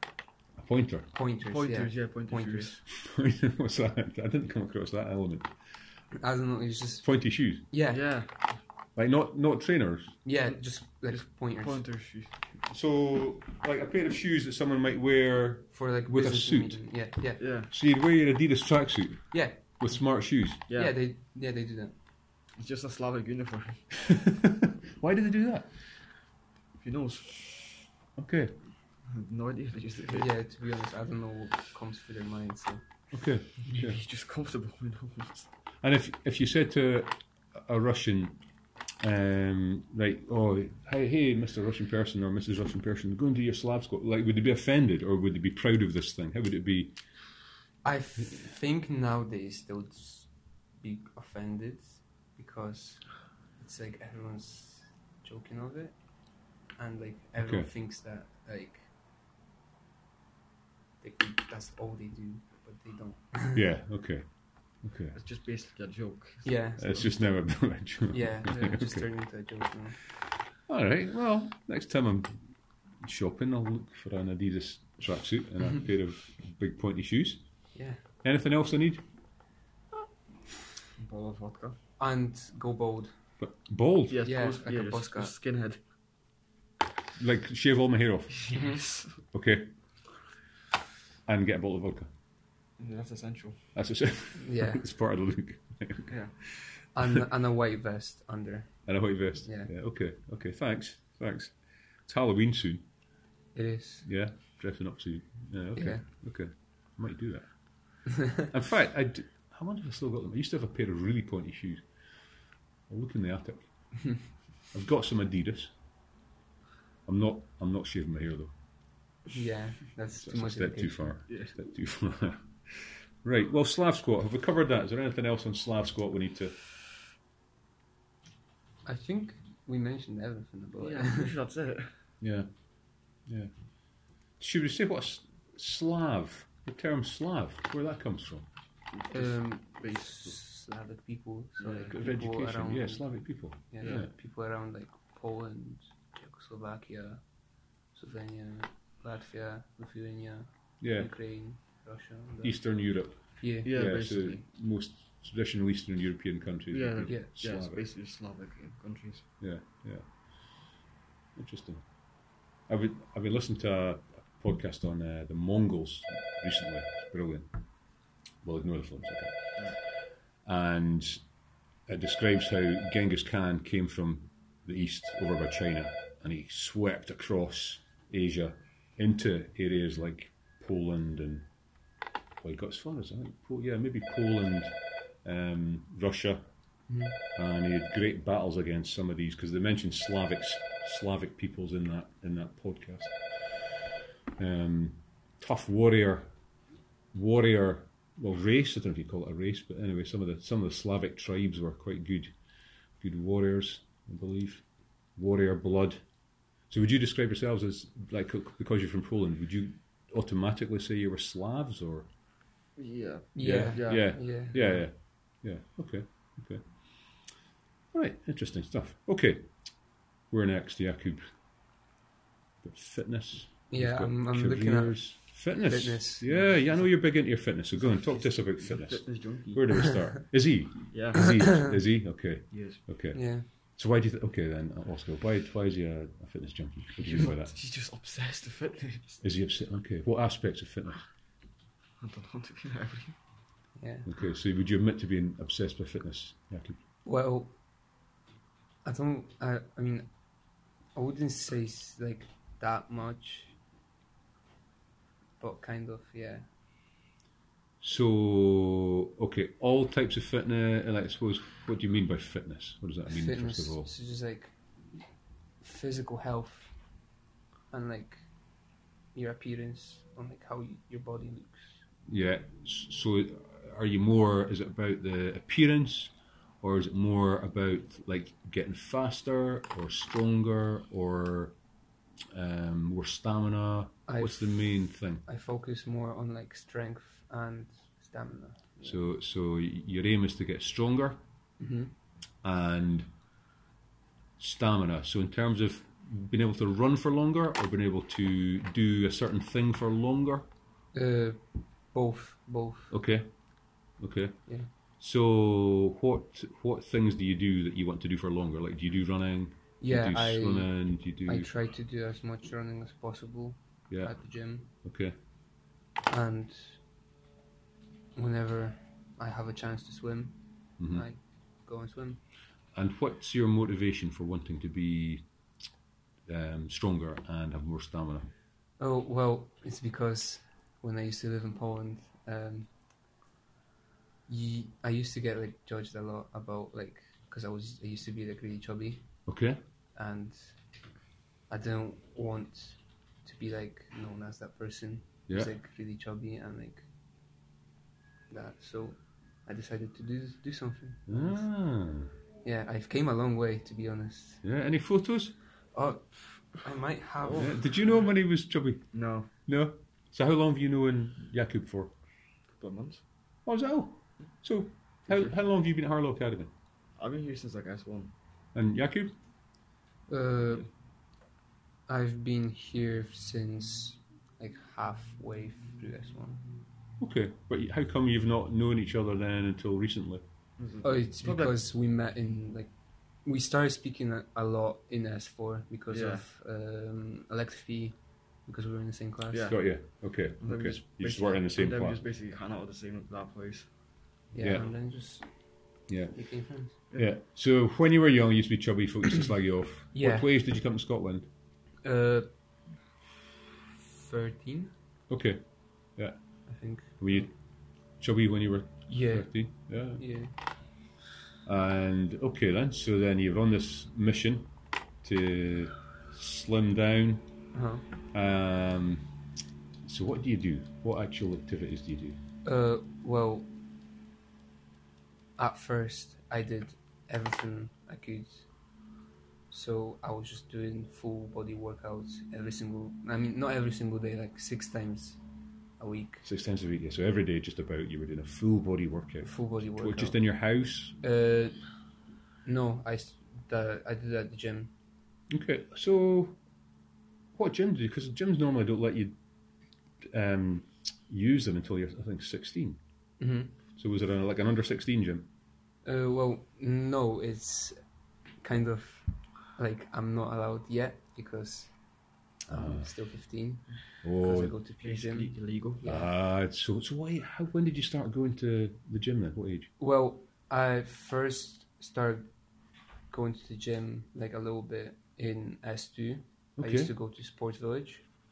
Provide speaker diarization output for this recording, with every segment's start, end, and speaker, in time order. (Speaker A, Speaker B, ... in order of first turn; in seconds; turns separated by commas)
Speaker A: 0.6-1.1, Speaker B: 1.1-2.8, Speaker C: 1.5-2.7, Speaker A: 2.9-5.5, Speaker B: 6.2-7.1, Speaker A: 7.0-7.7, Speaker B: 7.6-8.0, Speaker C: 7.9-8.6, Speaker A: 8.9-10.2, Speaker B: 10.2-11.8, Speaker C: 11.1-12.3, Speaker A: 12.7-16.8, Speaker B: 15.7-17.4, Speaker C: 17.4-17.7, Speaker A: 17.7-20.6, Speaker B: 19.3-19.6, Speaker C: 20.7-20.9, Speaker B: 20.7-21.9, Speaker C: 22.6-24.2, Speaker A: 24.1-25.7, Speaker C: 26.8-27.9, Speaker A: 28.2-28.6, Speaker C: 29.1-30.3, Speaker B: 30.1-32.8, Speaker A: 33.1-34.0, Speaker C: 33.7-35.5, Speaker A: 35.8-38.4, Speaker A: 39.0-47.0, Speaker B: 47.8-50.3, Speaker B: 50.8-53.0, Speaker B: 53.6-56.0, Speaker B: 56.8-58.9, Speaker A: 57.4-57.7, Speaker B: 61.0-63.6, Speaker A: 63.5-64.3, Speaker A: 64.8-65.2, Speaker C: 65.1-67.1, Speaker B: 66.4-67.0, Speaker A: 66.8-69.0, Speaker B: 68.1-70.0, Speaker C: 68.5-68.8, Speaker A: 70.7-72.4, Speaker A: 73.0-77.4, Speaker B: 77.7-78.0, Speaker A: 78.2-79.0, Speaker C: 81.0-81.8, Speaker B: 82.0-83.1, Speaker A: 83.4-84.2, Speaker C: 84.1-85.8, Speaker B: 84.2-85.3, Speaker A: 87.2-88.5, Speaker C: 88.4-89.2, Speaker B: 88.5-88.8, Speaker A: 89.3-89.7, Speaker A: 91.3-92.1, Speaker C: 92.8-93.6, Speaker A: 93.7-96.8, Speaker B: 94.4-94.8, Speaker C: 96.1-96.3, Speaker B: 96.9-98.8, Speaker A: 98.8-102.8, Speaker B: 99.4-99.7, Speaker B: 103.5-104.1, Speaker A: 104.0-107.5, Speaker B: 105.8-106.0, Speaker A: 108.0-111.8, Speaker A: 112.9-113.7, Speaker A: 114.7-115.7, Speaker A: 117.0-118.5, Speaker B: 119.3-121.2, Speaker A: 120.2-126.6, Speaker B: 128.8-131.3, Speaker C: 130.8-132.0, Speaker A: 132.2-132.5, Speaker A: 133.3-133.5, Speaker A: 134.4-138.5, Speaker C: 138.9-140.3, Speaker B: 139.1-143.1, Speaker C: 141.6-141.9, Speaker A: 141.8-144.1, Speaker B: 143.6-147.2, Speaker B: 147.9-152.6, Speaker A: 150.8-151.1, Speaker A: 152.4-157.8, Speaker B: 153.2-153.7, Speaker C: 153.6-154.4, Speaker C: 156.7-159.3, Speaker A: 159.4-160.1, Speaker A: 161.3-161.8, Speaker A: 162.7-167.5, Speaker A: 168.4-169.6, Speaker A: 170.4-171.2, Speaker A: 171.9-181.5, Speaker A: 182.4-186.4, Speaker B: 186.9-187.2, Speaker A: 187.3-193.7, Speaker A: 194.4-196.3, Speaker A: 197.1-202.3, Speaker A: 203.0-204.6, Speaker A: 205.2-206.0, Speaker A: 206.7-212.1, Speaker C: 212.8-214.1, Speaker B: 213.3-214.8, Speaker A: 213.4-216.6, Speaker A: 217.9-219.5, Speaker A: 220.3-221.2, Speaker A: 222.6-233.2, Speaker B: 223.7-226.3, Speaker C: 226.2-226.8, Speaker C: 227.7-229.9, Speaker C: 230.9-231.5, Speaker C: 232.5-232.8, Speaker B: 233.1-233.4, Speaker A: 233.8-237.5, Speaker C: 237.0-239.2, Speaker A: 239.2-241.1, Speaker C: 242.0-243.2, Speaker B: 243.8-244.1, Speaker A: 244.1-246.8, Speaker B: 247.0-247.5, Speaker B: 248.8-250.1, Speaker B: 250.9-253.6, Speaker B: 255.4-256.5, Speaker A: 257.8-263.9, Speaker B: 263.1-264.6, Speaker B: 265.6-266.7, Speaker B: 267.7-268.2, Speaker B: 269.1-271.8, Speaker A: 272.1-281.5, Speaker A: 282.3-285.2, Speaker B: 284.1-289.0, Speaker A: 288.8-291.2, Speaker B: 291.6-291.9, Speaker A: 292.4-293.1, Speaker A: 294.4-300.4, Speaker B: 300.9-302.9, Speaker A: 302.9-303.3, Speaker A: 304.0-304.5, Speaker A: 305.0-311.5, Speaker B: 309.8-314.7, Speaker A: 314.7-315.1, Speaker B: 316.1-316.8, Speaker B: 318.1-320.4, Speaker A: 320.8-321.0, Speaker B: 320.9-322.2, Speaker A: 322.7-325.2, Speaker A: 326.2-328.3, Speaker B: 328.8-332.7, Speaker B: 334.3-339.1, Speaker A: 339.2-339.6, Speaker B: 339.9-340.5, Speaker B: 341.5-346.9, Speaker B: 348.3-351.4, Speaker A: 351.1-352.1, Speaker B: 352.4-354.4, Speaker A: 354.4-355.4, Speaker B: 355.7-357.6, Speaker C: 357.2-357.5, Speaker A: 357.3-358.9, Speaker C: 358.9-359.3, Speaker A: 359.4-361.9, Speaker C: 362.6-363.0, Speaker A: 363.4-366.5, Speaker C: 367.0-368.1, Speaker A: 368.5-369.1, Speaker B: 370.1-370.7, Speaker B: 371.9-376.4, Speaker A: 377.0-380.2, Speaker C: 380.6-381.5, Speaker B: 380.8-382.7, Speaker B: 383.2-389.5, Speaker C: 385.9-386.2, Speaker C: 389.3-389.6, Speaker A: 389.5-392.0, Speaker C: 390.4-393.7, Speaker B: 394.3-395.3, Speaker A: 394.4-394.7, Speaker A: 395.9-396.1, Speaker B: 396.1-396.8, Speaker A: 396.9-401.3, Speaker B: 399.9-400.3, Speaker B: 401.8-402.3, Speaker B: 403.8-404.7, Speaker A: 405.1-405.4, Speaker B: 406.5-407.3, Speaker A: 407.0-407.3, Speaker A: 408.0-410.0, Speaker B: 408.9-410.3, Speaker A: 411.4-414.5, Speaker A: 415.0-417.2, Speaker B: 417.5-417.8, Speaker A: 418.1-419.0, Speaker A: 419.8-422.2, Speaker B: 422.4-423.5, Speaker B: 425.4-428.5, Speaker B: 429.5-435.2, Speaker B: 435.8-436.2, Speaker A: 436.2-441.0, Speaker B: 439.2-440.2, Speaker B: 441.0-441.6, Speaker B: 442.4-444.7, Speaker A: 445.3-446.4, Speaker A: 447.3-449.1, Speaker A: 450.0-452.8, Speaker B: 453.2-453.5, Speaker A: 453.8-455.3, Speaker B: 455.8-457.8, Speaker B: 458.4-461.7, Speaker B: 462.4-466.1, Speaker A: 462.5-462.9, Speaker A: 464.0-464.5, Speaker C: 464.8-465.8, Speaker A: 465.8-469.7, Speaker B: 469.8-472.3, Speaker B: 473.1-478.1, Speaker A: 476.6-476.9